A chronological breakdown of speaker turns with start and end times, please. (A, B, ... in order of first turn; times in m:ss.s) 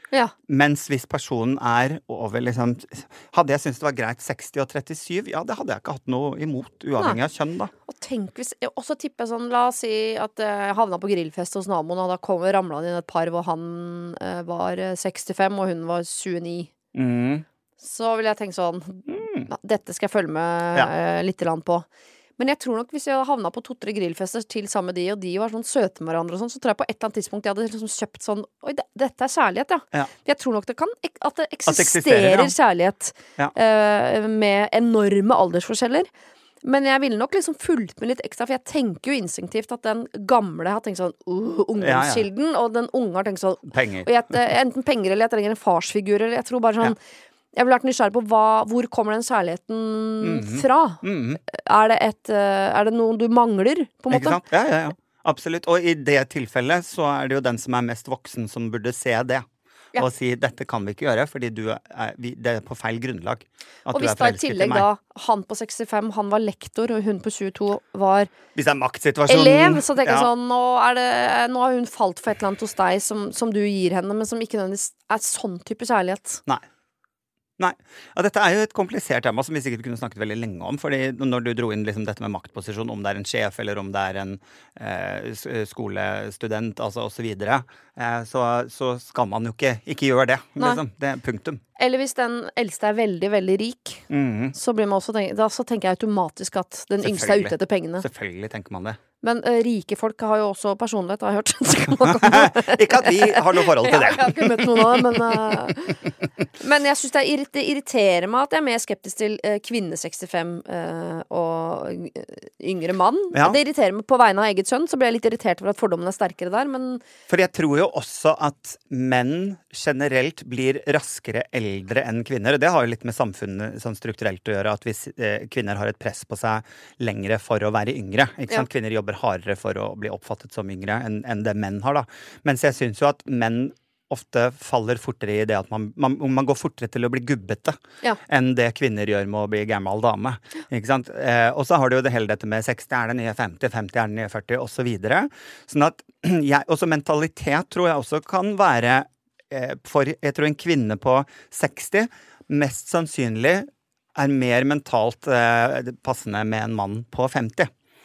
0:00.5-0:07.7 A
0:07.8-0:16.7 B
0:16.9-0:17.4 A
0:17.8-0:21.9 B
0:19.1-0:19.5 A
0:22.4-0:36.1 B
0:31.6-0:32.5 A
0:36.6-0:47.0 B
0:41.8-0:42.2 A
0:43.7-0:44.1 A
0:47.5-0:54.4 B
0:50.2-0:51.4 A
0:54.1-0:59.4 A
1:00.0-1:04.9 A
1:03.9-1:08.3 B
1:08.5-1:10.3 A
1:09.3-1:16.4 B
1:17.6-1:31.6 A
1:31.8-1:38.1 B
1:34.1-1:34.5 A
1:37.0-1:39.0 A
1:39.2-1:46.0 B
1:42.0-1:45.7 A
1:46.6-1:57.0 B
1:57.3-2:37.7 A